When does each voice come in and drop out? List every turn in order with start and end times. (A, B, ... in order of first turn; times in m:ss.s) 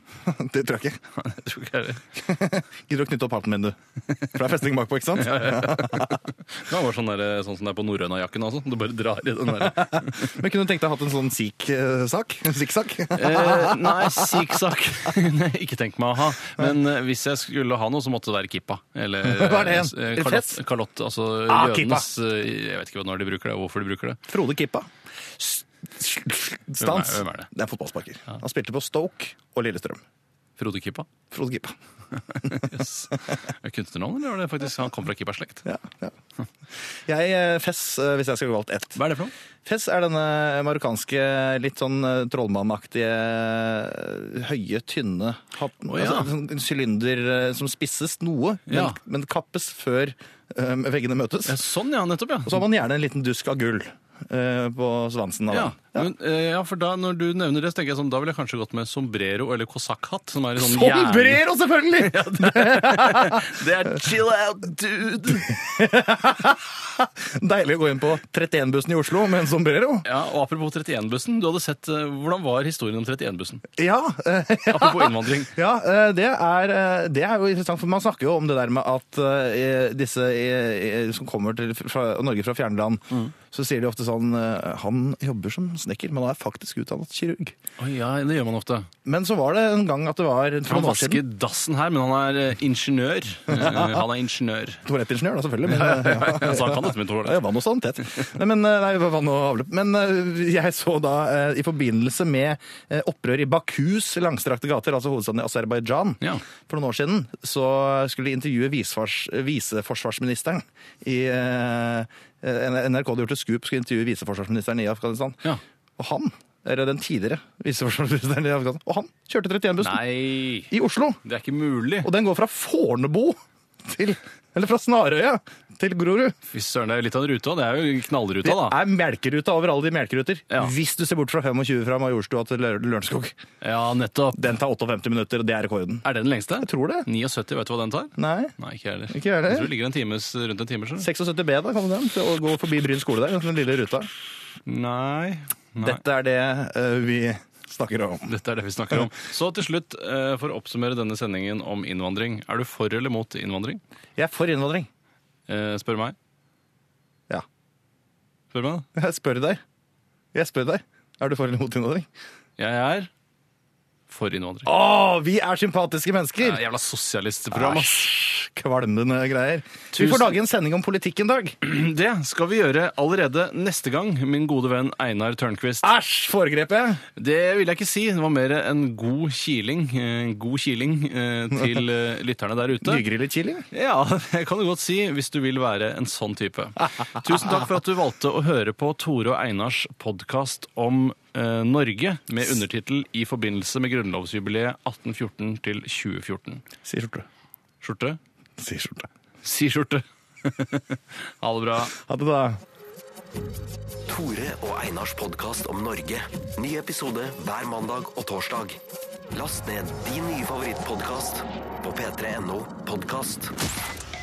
0:00.2-0:01.0 A
0:01.1-0:02.0 B
0:02.2-0:03.8 A
0:04.3-0:06.2 A
0:05.1-0:10.3 B
0:09.6-0:14.4 A
0:13.1-0:24.2 B
0:19.2-0:20.6 A
0:21.5-0:22.1 A
0:24.3-0:30.0 A
0:26.8-0:27.5 B
0:30.6-0:31.1 B
0:31.3-0:31.7 A
0:32.3-0:35.7 B
0:35.6-0:36.1 A
0:37.0-0:39.0 A
0:39.0-0:39.3 B
0:39.6-0:51.6 A
0:45.9-0:46.3 B
0:48.7-0:49.0 B
0:51.4-0:52.6 B
0:52.4-0:56.1 A
0:55.5-1:05.5 B
1:00.6-1:03.6 A
1:05.4-1:10.0 A
1:10.0-1:13.7 B
1:13.8-1:27.5 A
1:14.7-1:15.5 B
1:27.8-1:28.9 B
1:29.0-1:31.2 A
1:30.7-1:34.8 B
1:33.5-1:34.0 A
1:34.8-1:55.4 A
1:35.6-1:37.4 B
1:56.0-2:00.0 A
1:59.8-2:00.7 B
2:00.7-2:01.2 A
2:01.2-2:02.1 B
2:02.0-2:06.4 A
2:06.5-2:08.8 B
2:08.4-2:13.4 A
2:13.6-2:14.5 B
2:14.3-2:16.0 A
2:16.0-2:21.1 B
2:16.6-2:17.1 A
2:18.2-2:18.5 A
2:19.1-2:19.7 A
2:21.0-2:24.1 A
2:24.6-2:26.0 B
2:25.8-2:28.3 A
2:28.3-2:33.8 B
2:34.2-2:34.9 A
2:35.5-2:36.2 B
2:38.5-2:38.8 B
2:38.9-2:39.6 A
2:40.3-2:42.1 A
2:42.6-2:43.1 B
2:44.1-2:44.7 B
2:44.6-2:46.6 A
2:46.4-2:48.1 B
2:47.5-2:51.6 A
2:49.9-2:50.3 B
2:51.6-2:55.9 B
2:55.8-2:57.0 A
2:57.2-3:03.0 B
3:02.8-3:03.6 A
3:03.7-3:16.6 B
3:16.8-3:17.2 A
3:17.8-3:18.2 B
3:18.6-3:19.1 A
3:19.4-3:21.9 B
3:21.9-3:22.6 A
3:24.1-3:28.8 C
3:29.3-3:33.5 C